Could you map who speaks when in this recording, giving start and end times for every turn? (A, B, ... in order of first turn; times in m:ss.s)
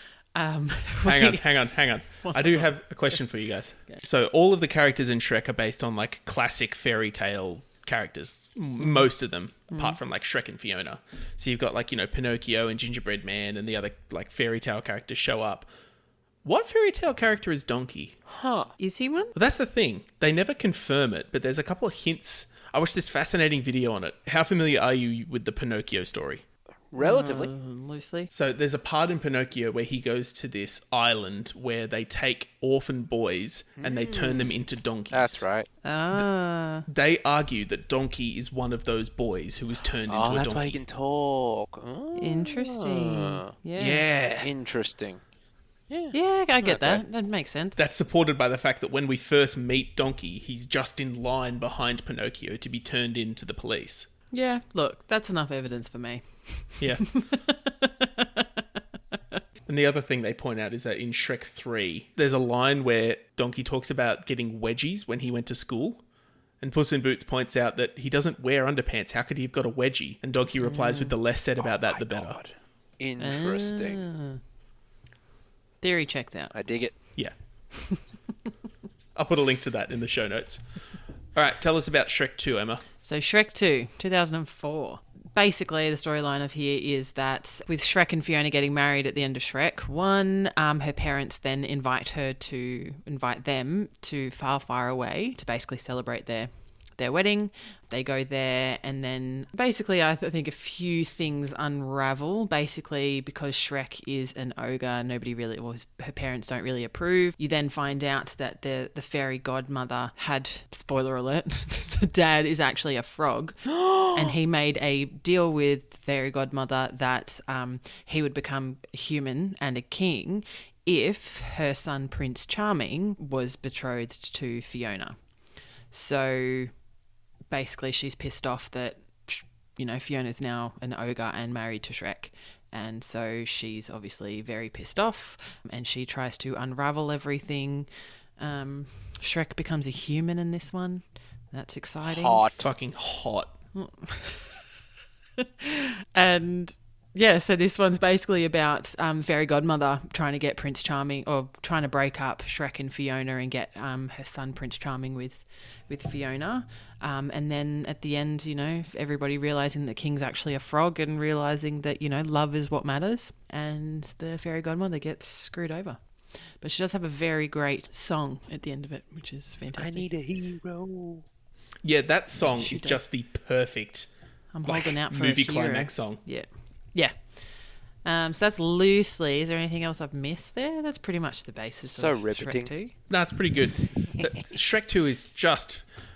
0:00.4-0:01.5 A
0:01.0-0:15.7 B
0:02.2-0:02.7 A
0:09.7-0:10.0 A
0:16.4-0:18.2 B
0:18.3-0:18.7 C
0:18.8-0:19.4 A
0:19.4-0:26.4 B
0:26.9-0:27.5 C
0:27.0-0:28.3 A
0:28.3-0:35.5 B
0:33.8-0:34.6 C
0:35.1-0:35.7 C
0:35.8-0:36.9 A
0:36.9-0:40.8 B
0:40.1-0:43.5 C
0:42.2-0:44.0 A
0:43.8-0:44.5 B
0:44.4-0:45.2 C
0:45.9-0:47.0 C
0:46.1-0:47.8 A
0:47.8-0:54.1 B
0:54.3-0:58.6 A
0:56.8-0:57.1 B
0:59.7-1:06.0 B
1:06.6-1:12.4 B
1:10.6-1:11.2 A
1:11.6-1:14.0 C
1:13.2-1:14.4 A
1:15.8-1:16.5 A
1:16.5-1:16.9 C
1:19.2-1:20.6 B
1:21.4-1:22.8 B
1:23.0-1:53.6 A
1:53.7-1:54.4 C
1:54.1-2:05.2 A
2:05.9-2:06.7 A
2:07.5-2:17.9 A
2:18.4-2:22.5 A
2:22.0-2:22.7 C
2:22.6-2:23.5 B
2:23.8-2:24.6 A
2:25.4-2:46.0 A
2:46.6-2:50.1 A
2:49.8-2:51.2 C
2:51.8-2:54.1 B
2:52.6-2:53.0 A
2:54.5-2:57.1 A
2:54.6-2:56.2 B
2:58.0-3:02.9 A
3:01.8-3:02.7 C
3:03.1-3:05.8 B